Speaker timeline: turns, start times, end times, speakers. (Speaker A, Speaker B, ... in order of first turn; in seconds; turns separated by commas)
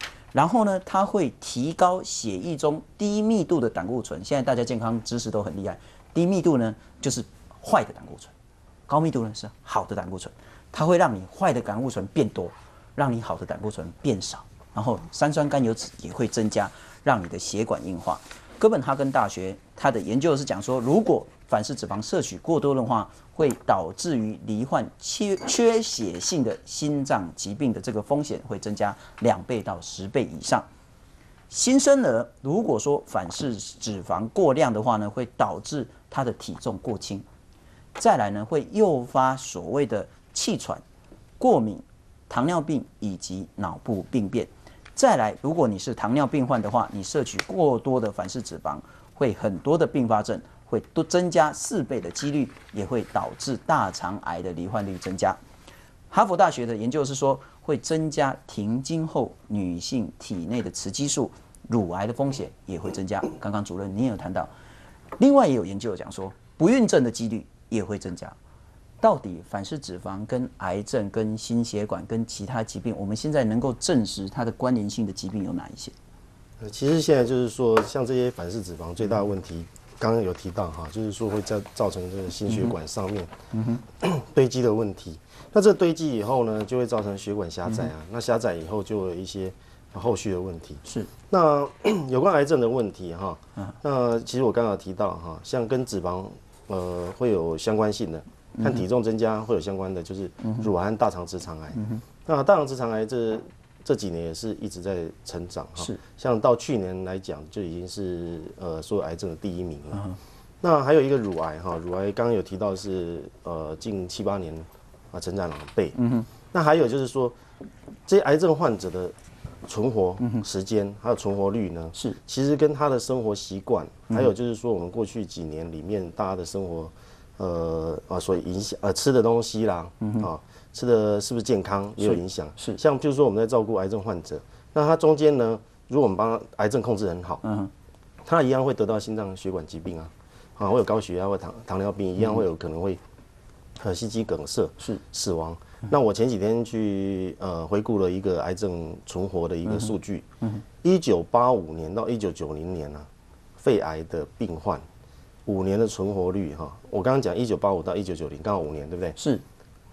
Speaker A: 0.3-8.3, Speaker A: 8.9-30.7, Speaker A: 31.5-37.2, Speaker A: 38.0-40.8, Speaker A: 41.4-55.4, Speaker A: 56.1-64.5, Speaker A: 65.2-68.4, Speaker A: 69.0-75.9, Speaker B: 76.6-83.3, Speaker A: 83.5-83.8, Speaker B: 84.0-110.1, Speaker B: 110.6-116.0, Speaker A: 116.0-116.3, Speaker B: 116.5-117.4, Speaker B: 118.1-119.1, Speaker B: 119.7-137.4, Speaker A: 132.0-132.8, Speaker A: 137.4-137.7, Speaker B: 138.2-143.0, Speaker B: 143.8-150.3, Speaker B: 150.8-153.1, Speaker B: 153.6-154.8, Speaker B: 155.5-159.2, Speaker A: 159.2-159.4